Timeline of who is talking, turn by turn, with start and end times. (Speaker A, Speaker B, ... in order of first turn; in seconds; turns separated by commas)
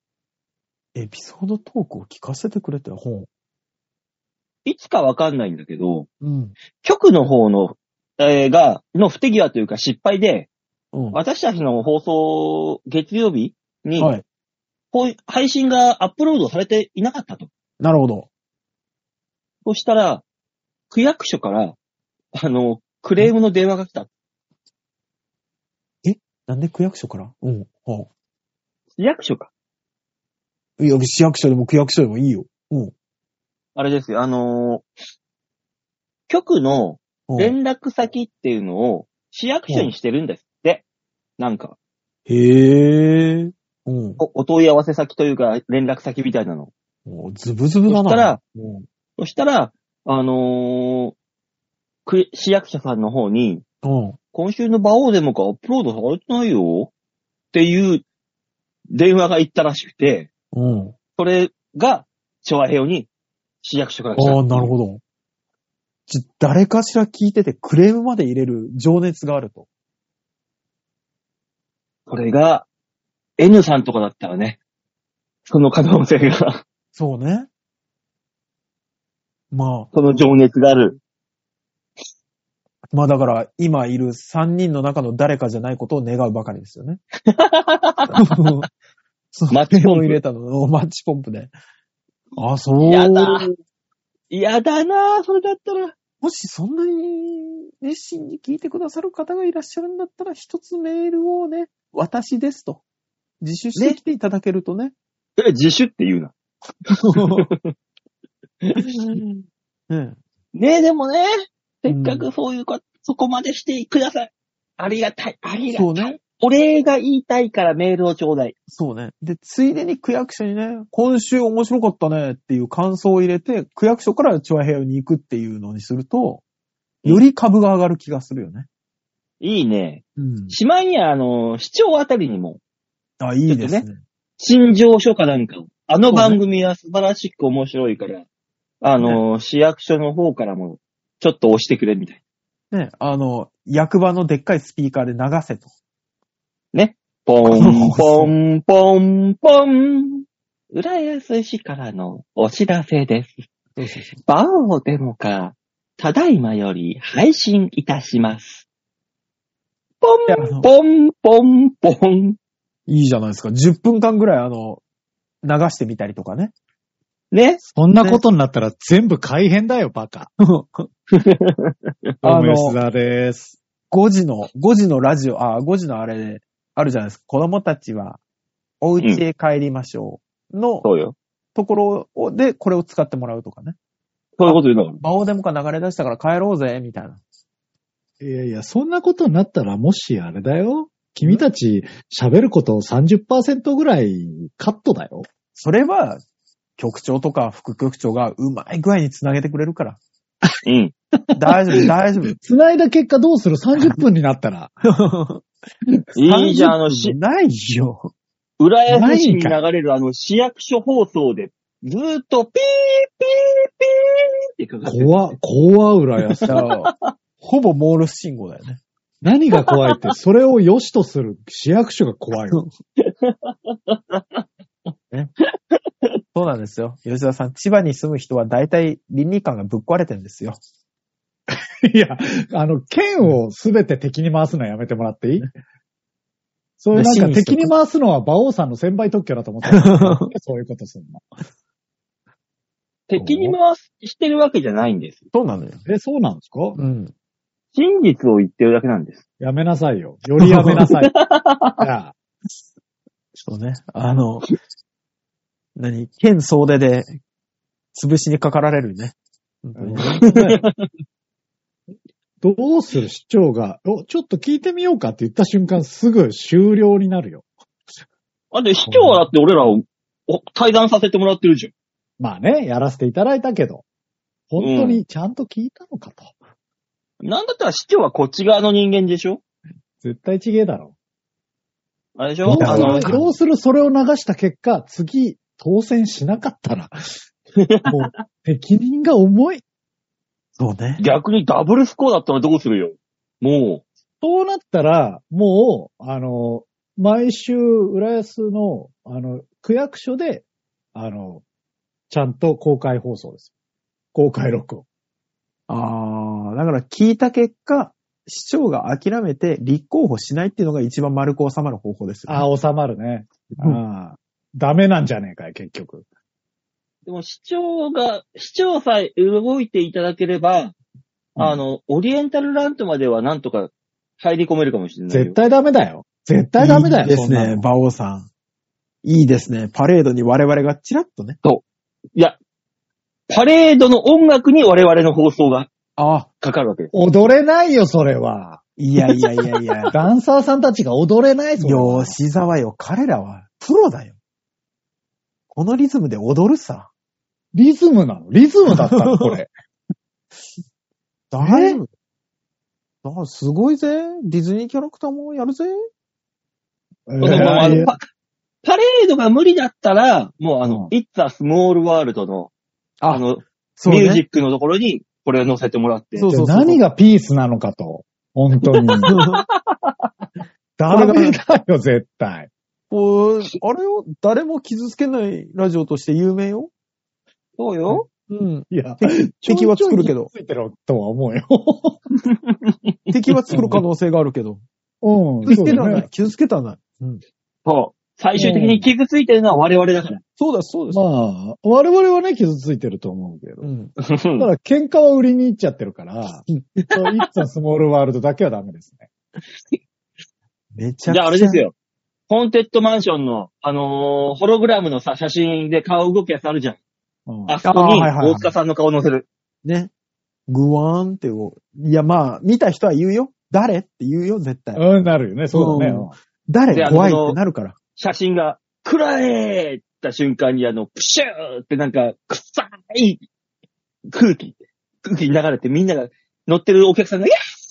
Speaker A: 0.9-3.3, Speaker B: 4.7-6.1, Speaker A: 6.2-6.5, Speaker B: 6.8-10.5, Speaker A: 10.9-11.2, Speaker B: 11.1-14.1, Speaker A: 14.0-14.2, Speaker B: 14.9-17.5, Speaker A: 17.8-18.3, Speaker B: 19.6-20.2, Speaker B: 20.9-21.8, Speaker B: 22.3-24.1, Speaker A: 26.0-28.1, Speaker B: 29.0-29.5, Speaker A: 30.8-32.9, Speaker B: 33.8-34.9, Speaker B: 36.3-40.9, Speaker A: 37.3-37.6, Speaker B: 41.4-41.8, Speaker A: 42.3-44.2, Speaker B: 44.2-46.7, Speaker A: 47.1-48.9, Speaker B: 47.9-48.4, Speaker B: 49.2-51.1, Speaker B: 52.1-53.6, Speaker A: 53.8-54.2, Speaker B: 54.3-56.9, Speaker B: 57.5-58.0, Speaker B: 58.9-60.3, Speaker A: 60.5-61.0, Speaker B: 61.2-63.1, Speaker B: 63.6-64.7, Speaker A: 64.2-65.0, Speaker A: 66.1-69.7, Speaker B: 72.1-72.7, Speaker B: 73.4-74.6, Speaker B: 75.5-76.6, Speaker A: 76.9-77.5, Speaker A: 79.5-79.9, Speaker B: 79.9-81.0, Speaker A: 82.9-87.0, Speaker B: 87.3-88.2, Speaker A: 88.1-88.7, Speaker A: 89.3-91.5, Speaker B: 89.5-90.2, Speaker A: 92.4-93.5, Speaker B: 92.9-93.5, Speaker B: 94.3-96.0, Speaker A: 96.2-102.8, Speaker A: 103.4-104.9, Speaker B: 105.4-106.3, Speaker B: 107.0-107.7, Speaker A: 107.0-107.5, Speaker B: 108.6-109.2, Speaker A: 108.8-110.2, Speaker B: 110.5-111.3, Speaker B: 111.8-118.5, Speaker A: 111.9-112.3, Speaker A: 115.7-116.1, Speaker A: 118.7-126.4, Speaker A: 127.0-128.7, Speaker B: 129.4-132.6, Speaker A: 130.2-130.6, Speaker A: 133.2-134.0, Speaker B: 133.5-133.8, Speaker B: 134.4-138.3, Speaker A: 136.1-136.4, Speaker B: 138.8-142.2, Speaker A: 142.7-145.7, Speaker B: 146.7-153.4, Speaker A: 147.4-148.3, Speaker A: 153.8-154.2, Speaker B: 154.2-158.7, Speaker B: 160.0-162.4, Speaker A: 160.3-160.7, Speaker A: 162.9-164.8, Speaker A: 165.4-166.5, Speaker B: 167.3-167.6, Speaker C: 167.7-170.3, Speaker A: 170.4-170.9, Speaker B: 171.1-171.8, Speaker A: 172.2-172.8, Speaker C: 172.2-173.6, Speaker A: 173.9-178.2, Speaker A: 178.8-180.9, Speaker B: 180.8-181.2, Speaker A: 181.6-183.8, Speaker B: 184.4-185.0, Speaker A: 184.5-187.2, Speaker C: 188.2-195.3, Speaker A: 195.5-196.2, Speaker A: 196.8-200.0, Speaker B: 200.7-200.9, Speaker A: 201.3-202.4, Speaker C: 201.8-204.8, Speaker A: 204.9-205.4, Speaker B: 206.2-207.2, Speaker A: 206.2-208.1, Speaker B: 208.6-215.3, Speaker C: 208.9-209.6, Speaker C: 214.8-216.5, Speaker B: 216.2-217.1, Speaker A: 216.4-218.8, Speaker C: 219.2-222.6, Speaker B: 219.5-220.1, Speaker B: 223.0-224.4, Speaker A: 226.3-230.6, Speaker C: 231.5-235.5, Speaker C: 236.8-241.2, Speaker A: 236.9-237.7, Speaker A: 239.7-240.3, Speaker B: 243.1-245.2, Speaker A: 243.2-243.6, Speaker A: 245.3-245.8, Speaker C: 245.8-246.8, Speaker A: 246.8-247.1, Speaker B: 247.7-249.2, Speaker C: 249.4-251.1, Speaker A: 250.4-250.8, Speaker B: 251.0-251.8, Speaker C: 251.8-252.2, Speaker A: 253.4-254.5, Speaker A: 255.8-257.1, Speaker A: 257.9-260.6, Speaker C: 259.8-260.6, Speaker B: 260.2-260.8, Speaker C: 262.4-267.4, Speaker B: 268.5-271.7, Speaker A: 268.9-269.2, Speaker C: 272.2-273.9, Speaker C: 274.5-276.3, Speaker B: 274.6-275.0, Speaker B: 277.2-279.4, Speaker C: 280.0-280.9, Speaker B: 282.2-283.1, Speaker C: 282.4-287.0, Speaker A: 282.5-283.3, Speaker B: 287.6-287.9, Speaker C: 287.9-289.6, Speaker A: 290.6-291.0, Speaker B: 291.0-293.8, Speaker C: 294.2-301.4, Speaker C: 302.1-303.5, Speaker C: 304.1-304.9, Speaker A: 305.7-312.5, Speaker C: 312.3-316.1, Speaker B: 317.1-320.8, Speaker B: 321.4-325.4, Speaker C: 325.1-327.6, Speaker A: 326.6-328.3, Speaker A: 329.0-331.4, Speaker B: 333.3-335.7, Speaker A: 336.0-336.3, Speaker B: 336.4-336.9, Speaker C: 336.9-338.6, Speaker A: 338.8-339.9, Speaker C: 339.9-342.2, Speaker A: 341.6-344.1, Speaker A: 345.5-346.9, Speaker C: 347.5-349.5, Speaker A: 348.7-349.4, Speaker A: 351.3-351.9, Speaker C: 351.4-351.8, Speaker A: 353.0-355.8, Speaker C: 357.1-357.9, Speaker B: 357.2-358.1, Speaker A: 357.2-357.9, Speaker B: 358.6-362.5, Speaker C: 360.6-360.9, Speaker A: 363.0-363.2, Speaker B: 363.1-366.3, Speaker A: 363.8-364.2, Speaker A: 366.2-366.8, Speaker C: 366.3-369.1, Speaker B: 368.6-370.1, Speaker A: 369.1-369.4, Speaker C: 370.8-372.5, Speaker A: 370.9-371.4, Speaker A: 372.9-376.7, Speaker B: 377.6-378.1, Speaker A: 378.3-380.3, Speaker C: 378.7-382.0, Speaker B: 382.5-382.9, Speaker A: 383.1-384.6, Speaker C: 383.5-383.8, Speaker C: 385.0-386.1, Speaker A: 385.5-387.2, Speaker B: 385.5-385.8, Speaker B: 387.6-390.2, Speaker C: 388.4-388.9, Speaker A: 390.4-391.0, Speaker C: 390.9-393.7, Speaker A: 393.6-393.9, Speaker B: 394.0-394.5, Speaker C: 394.4-399.1, Speaker B: 396.9-397.2, Speaker A: 400.7-401.6, Speaker B: 401.1-401.7, Speaker B: 402.3-406.8, Speaker C: 407.3-407.6, Speaker B: 407.5-409.3, Speaker A: 407.6-408.5, Speaker A: 409.6-409.9, Speaker A: 410.5-414.8, Speaker C: 414.8-416.1, Speaker A: 415.5-417.8, Speaker B: 416.7-417.4, Speaker B: 418.0-423.2, Speaker B: 424.1-427.3